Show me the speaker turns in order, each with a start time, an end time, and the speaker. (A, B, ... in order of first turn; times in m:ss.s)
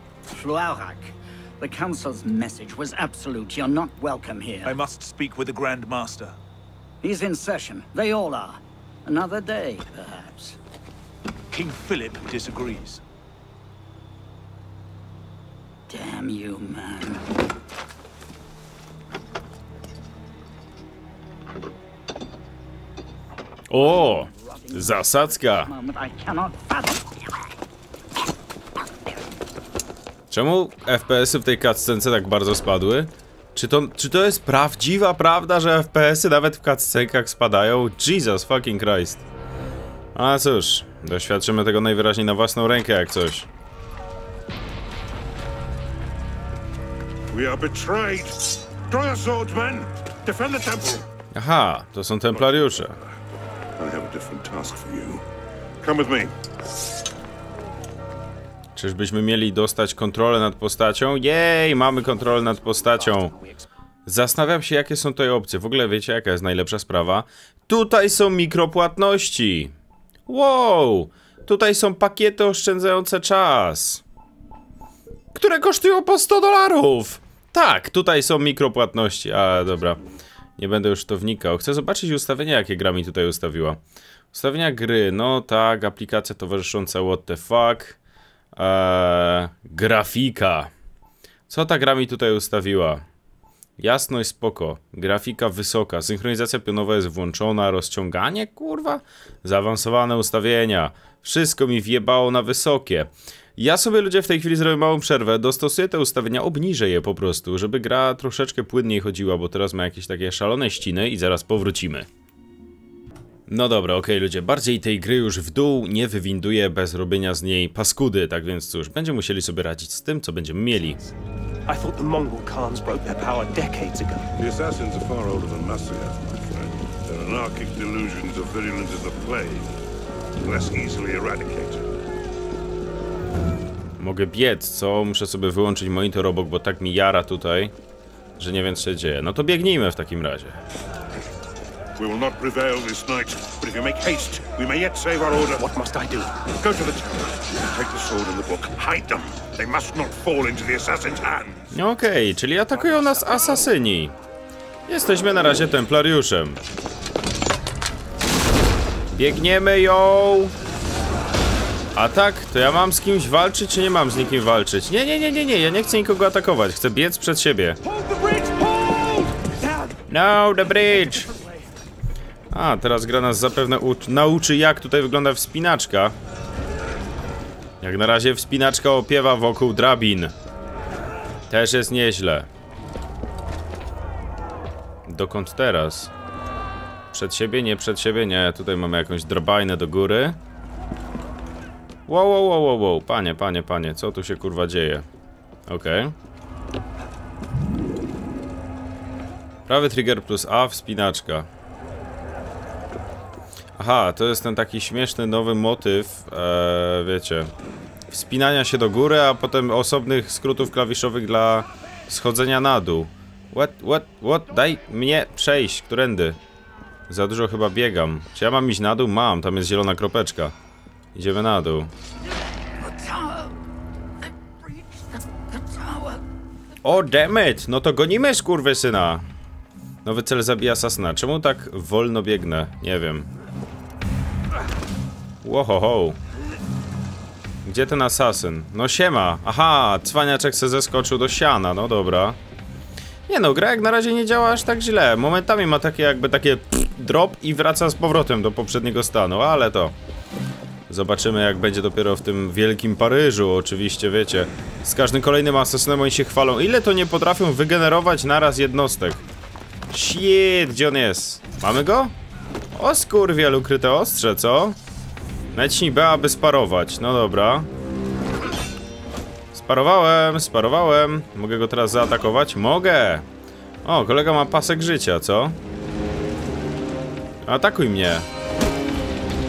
0:00.3-0:04.8 A
0:04.6-0:06.4 B
0:07.0-0:10.6 A
0:11.5-0:13.0 B
0:15.9-0:17.2 A
0:23.7-0:25.7 C
0:23.7-0:27.4 A
0:30.3-0:39.2 C
0:40.1-0:43.5 C
0:47.3-0:51.0 D
0:51.3-0:53.0 C
0:53.8-0:55.2 D
0:55.8-0:56.3 D
0:58.8-1:03.3 C
1:03.2-1:03.5 A
1:04.0-1:09.7 C
1:10.3-1:14.0 C
1:15.3-1:20.0 C
1:20.6-1:23.8 C
1:24.3-1:28.0 C
1:28.5-1:30.7 C
1:31.5-1:33.0 C
1:33.8-1:52.1 C
1:53.5-2:01.0 C
2:01.6-2:04.3 E
2:04.4-2:09.7 D
2:10.4-2:11.9 D
2:14.0-2:17.7 C
2:18.4-2:20.6 C
2:22.0-2:25.7 D
2:25.6-2:26.4 E
2:26.6-2:31.6 D
2:31.7-2:34.1 C
2:34.9-2:36.6 C
2:39.1-2:40.5 C
2:41.9-2:47.8 C
2:47.8-2:49.3 E
2:50.1-2:51.3 C
2:52.5-2:56.2 C
2:57.8-3:00.3 C
3:01.5-3:02.5 C
3:05.0-3:06.1 C
3:07.1-3:10.4 C
3:12.1-3:15.0 C
3:15.7-3:16.1 C
3:19.7-3:21.5 C
3:23.8-3:27.5 C
3:28.1-3:36.4 C
3:37.1-3:40.5 C
3:41.1-3:41.9 C
3:43.0-3:43.4 A
3:46.8-3:49.2 C
3:50.0-3:53.3 C
3:55.4-3:56.2 C
3:57.6-4:02.4 C
4:03.3-4:09.9 C
4:10.9-4:19.2 C
4:19.9-4:22.1 C
4:22.7-4:24.8 C
4:25.5-4:27.7 C
4:29.5-4:33.3 C
4:33.8-4:35.6 C
4:37.4-4:38.2 C